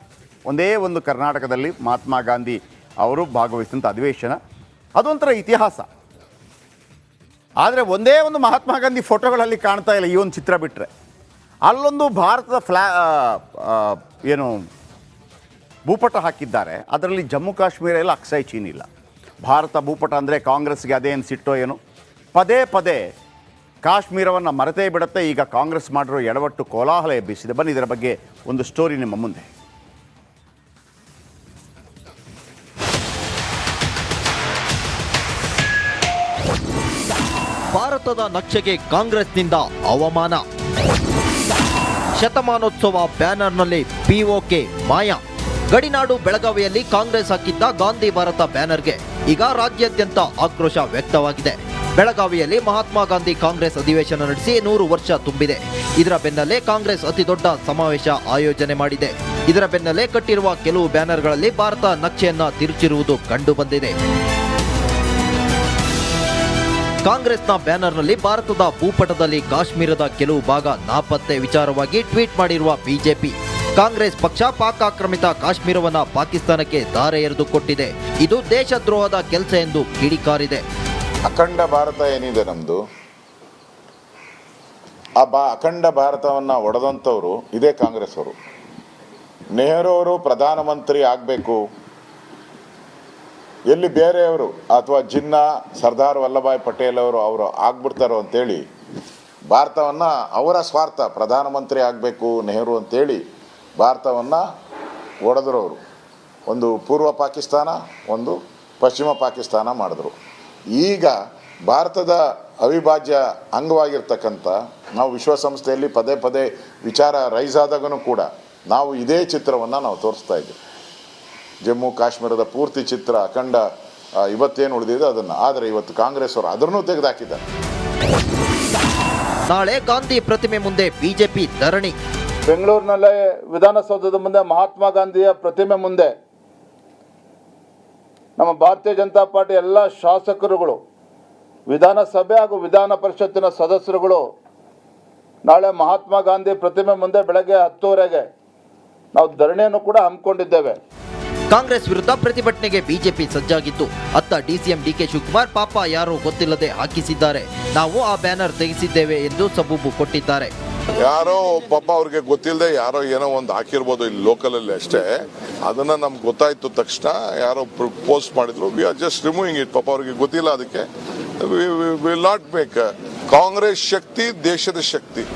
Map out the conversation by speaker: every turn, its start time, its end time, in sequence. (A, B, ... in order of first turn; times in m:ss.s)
0:00.5-0:04.4 A
0:05.0-0:05.9 A
0:07.6-0:10.9 A
0:11.6-0:14.6 A
0:15.9-0:18.9 A
0:19.4-0:21.8 A
0:22.3-0:23.0 A
0:23.8-0:29.5 A
0:37.7-0:40.4 B
0:42.2-0:45.2 B
0:45.7-1:04.0 B
1:07.0-1:20.6 B
1:21.3-1:22.8 C
1:25.2-1:28.3 C
1:29.6-1:31.6 C
1:33.7-1:38.6 C
1:39.5-1:43.2 C
1:43.8-1:44.4 C
1:45.2-1:45.8 C
1:46.5-1:50.1 C
1:50.8-1:51.1 C
1:51.7-2:00.6 C
2:01.7-2:03.6 C
2:04.3-2:07.4 C
2:09.5-2:11.9 B
2:12.5-2:16.1 D
2:18.4-2:20.8 D
2:21.7-2:24.2 D
2:25.4-2:28.2 D
2:29.1-2:30.8 D
2:31.5-2:40.5 B
2:41.0-2:45.1 E
2:45.7-2:50.8 E
2:51.4-2:55.2 E